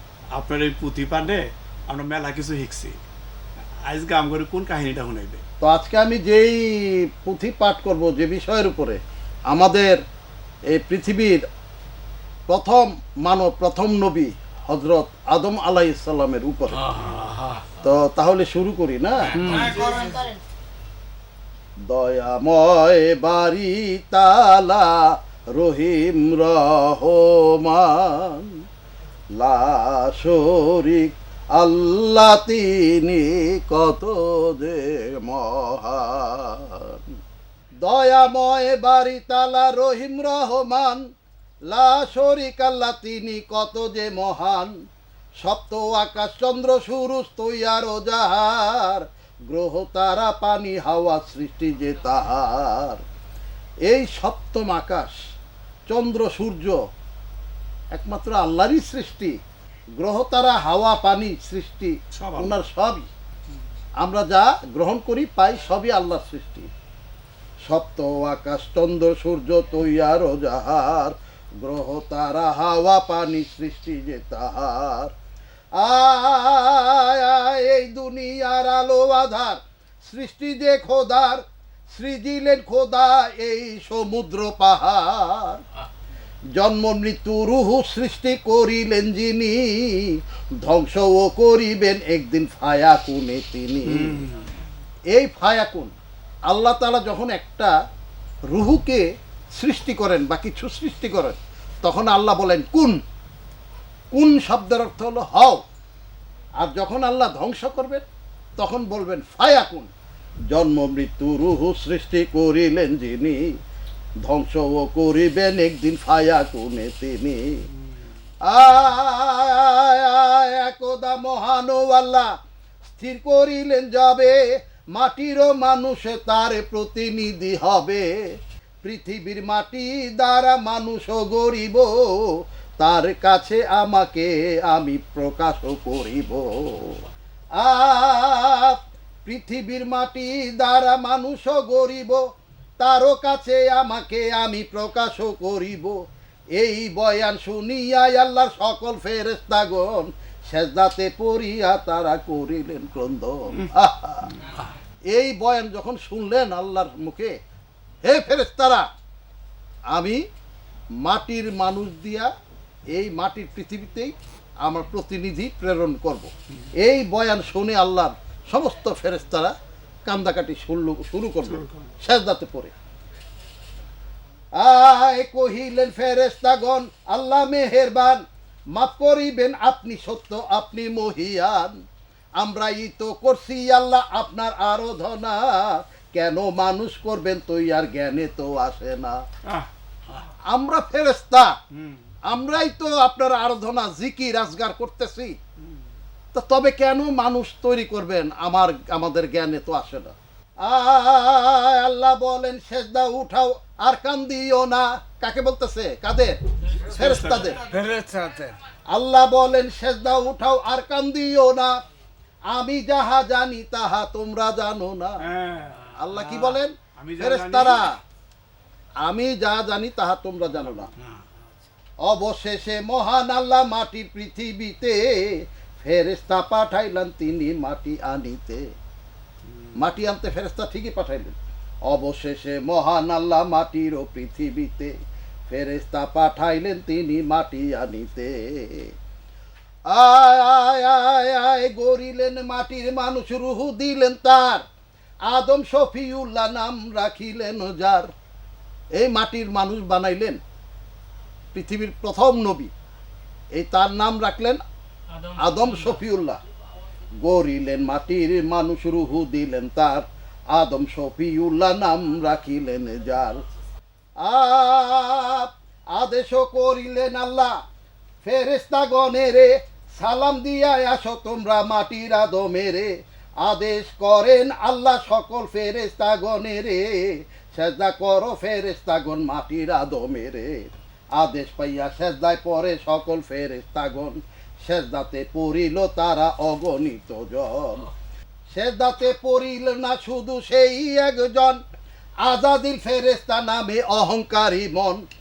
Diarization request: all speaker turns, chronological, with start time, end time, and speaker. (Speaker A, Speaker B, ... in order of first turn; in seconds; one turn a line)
Speaker A: 0.3-3.0
Speaker A: 3.8-5.4
Speaker B: 5.6-10.0
Speaker B: 10.7-11.4
Speaker B: 12.5-16.9
Speaker C: 16.7-17.6
Speaker B: 17.8-19.8
Speaker C: 19.5-20.2
Speaker B: 21.9-28.6
Speaker B: 29.4-37.1
Speaker B: 37.8-41.0
Speaker B: 41.7-44.8
Speaker B: 45.4-53.0
Speaker B: 53.9-55.2
Speaker B: 55.9-56.8
Speaker B: 57.9-59.4
Speaker B: 60.0-63.1
Speaker A: 62.1-62.6
Speaker B: 64.0-66.7
Speaker B: 67.7-75.1
Speaker B: 75.8-85.6
Speaker B: 86.6-94.3
Speaker A: 93.9-94.4
Speaker B: 95.1-95.9
Speaker B: 96.5-97.7
Speaker B: 98.5-103.0
Speaker B: 104.1-105.6
Speaker B: 106.6-108.0
Speaker B: 108.6-109.9
Speaker B: 110.5-113.5
Speaker B: 114.2-117.7
Speaker B: 118.5-122.3
Speaker B: 122.9-124.4
Speaker B: 124.9-128.1
Speaker B: 128.8-137.0
Speaker B: 137.6-142.2
Speaker B: 142.8-146.0
Speaker B: 146.6-154.4
Speaker B: 155.1-157.3
Speaker B: 158.1-158.9
Speaker B: 159.9-160.2
Speaker B: 161.0-162.3
Speaker B: 162.9-169.5
Speaker B: 170.1-172.7
Speaker A: 171.6-171.9
Speaker B: 174.6-181.8
Speaker B: 182.4-189.2
Speaker B: 190.5-191.5
Speaker B: 192.3-195.4
Speaker B: 196.3-207.7
Speaker A: 206.9-207.5
Speaker C: 207.7-208.6
Speaker B: 208.9-211.7
Speaker B: 212.5-215.2
Speaker A: 215.2-215.9
Speaker B: 215.9-218.0
Speaker A: 217.0-217.9
Speaker B: 219.0-220.9
Speaker B: 222.0-228.6
Speaker B: 229.8-231.4
Speaker B: 231.9-234.9
Speaker B: 235.5-238.9
Speaker B: 239.9-244.6
Speaker B: 245.3-248.1
Speaker B: 249.0-250.4
Speaker B: 251.5-252.7
Speaker B: 253.6-254.6
Speaker B: 255.3-256.4
Speaker B: 257.2-263.4
Speaker B: 264.2-267.6
Speaker B: 268.2-272.9
Speaker B: 273.4-287.9
Speaker B: 288.5-291.6
Speaker B: 292.2-295.0